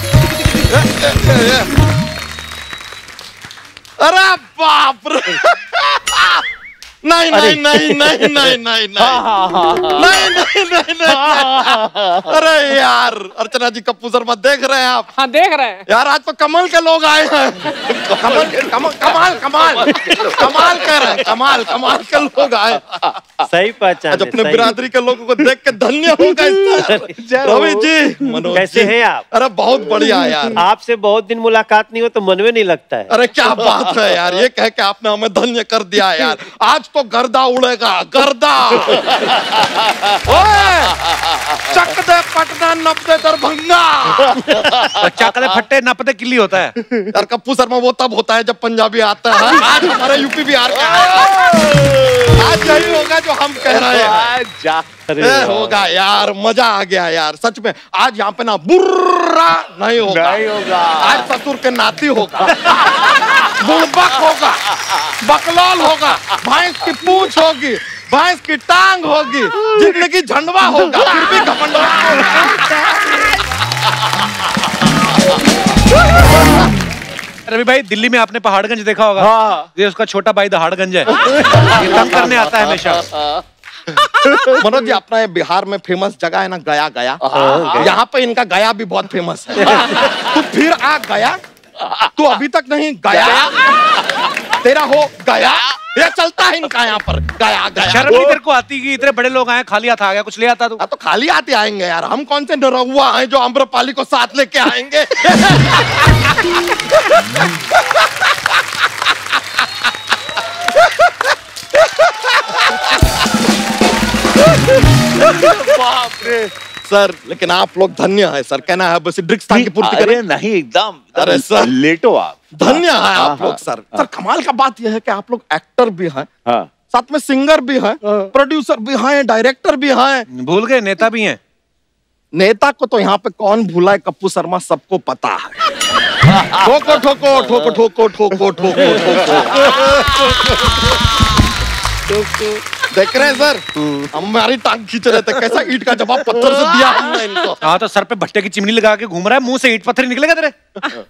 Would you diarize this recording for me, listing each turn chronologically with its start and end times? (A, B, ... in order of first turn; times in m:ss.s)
0:00.6-0:01.7 A
0:04.0-0:06.4 A
0:07.0-0:09.3 A
0:07.3-0:08.2 B
0:09.0-0:10.2 C
0:09.9-0:15.1 A
0:11.2-0:12.1 C
0:15.9-0:23.4 A
0:23.4-0:24.8 B
0:24.1-0:30.6 A
0:26.8-0:27.1 B
0:27.3-0:27.8 C
0:28.5-0:29.3 B
0:30.5-0:33.1 B
0:33.1-0:39.4 A
0:40.1-0:44.5 A
0:44.5-0:46.8 D
0:47.0-0:51.4 A
0:50.9-0:52.4 C
0:52.3-0:54.4 A
0:53.6-0:55.0 C
0:55.1-0:55.6 B
0:55.2-1:00.5 A
1:00.0-1:01.3 C
1:01.0-1:12.9 A
1:02.7-1:03.4 C
1:17.5-1:23.1 D
1:19.2-1:19.7 C
1:21.4-1:22.0 C
1:24.5-1:31.4 A
1:27.2-1:27.8 C
1:27.3-1:28.0 B
1:32.0-1:38.2 A
1:37.8-1:40.8 D
1:40.8-1:47.2 A
1:52.2-1:52.8 A
1:55.6-1:56.3 C
1:56.8-2:00.2 A
1:59.5-2:04.0 C
2:01.2-2:01.7 A
2:02.5-2:06.3 A
2:06.9-2:10.3 A
2:10.3-2:11.4 D
2:12.3-2:15.6 A
2:16.5-2:20.3 A
2:22.9-2:27.6 A
2:27.6-2:30.6 D